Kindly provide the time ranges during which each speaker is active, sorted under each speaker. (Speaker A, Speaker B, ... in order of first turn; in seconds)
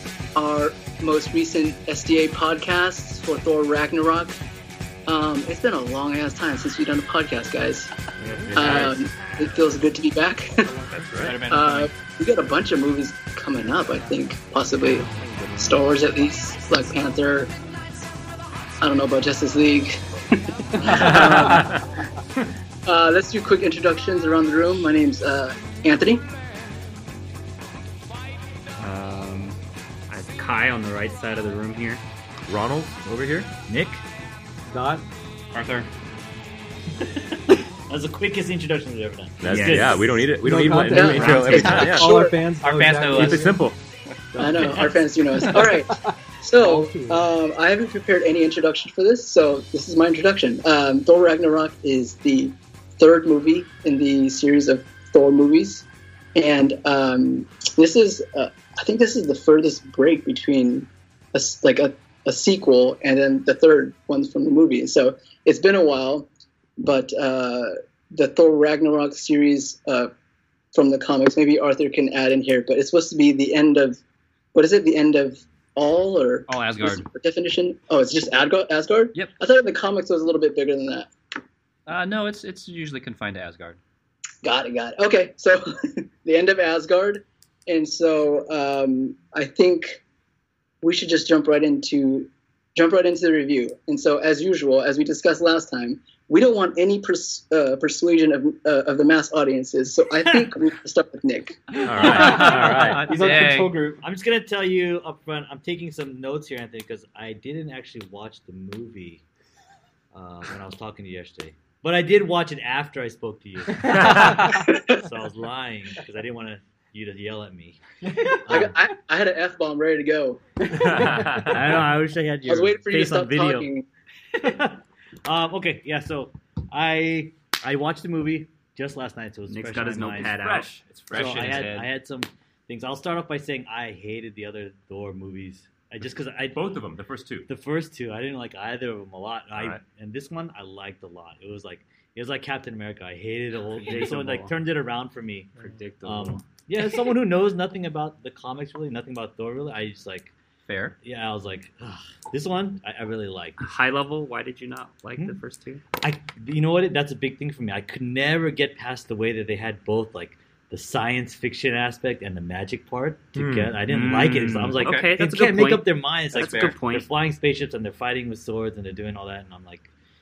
Speaker A: 0.3-4.4, 5.1-7.9, 8.5-10.7, 11.5-17.5, 18.8-20.0, 20.6-21.7, 22.9-26.2, 40.9-42.4, 44.4-70.1, 70.7-74.0, 74.5-81.1, 84.4-90.0, 90.8-101.9, 118.5-121.4, 122.5-123.8
Speaker B: 8.2-9.0, 10.9-11.4, 20.9-21.8, 32.5-33.0, 39.4-42.1, 43.1-43.8, 101.8-103.1, 113.8-114.3, 120.7-121.6, 130.2-131.8, 136.5-137.5, 163.3-163.8
Speaker C: 8.2-9.5, 28.8-29.6, 30.1-32.0, 35.5-35.9, 39.5-40.1, 41.1-41.5, 129.5-131.9, 143.8-144.5, 145.6-146.4, 153.6-155.8, 163.8-167.1
Speaker D: 11.1-11.9, 20.8-21.7, 42.6-43.5, 44.5-44.9, 76.5-77.1, 81.9-83.8, 102.0-103.8, 131.3-131.7, 150.7-151.0, 164.8-165.1, 166.3-166.7
Speaker E: 33.2-34.0, 37.0-40.1, 101.8-109.2, 110.1-118.7, 121.4-123.7, 124.4-130.4, 131.1-136.8, 137.4-150.3, 151.0-153.6, 156.0-169.9
Speaker F: 34.7-35.0, 40.4-43.7, 44.3-45.0, 45.5-47.3, 118.1-118.4, 121.0-121.3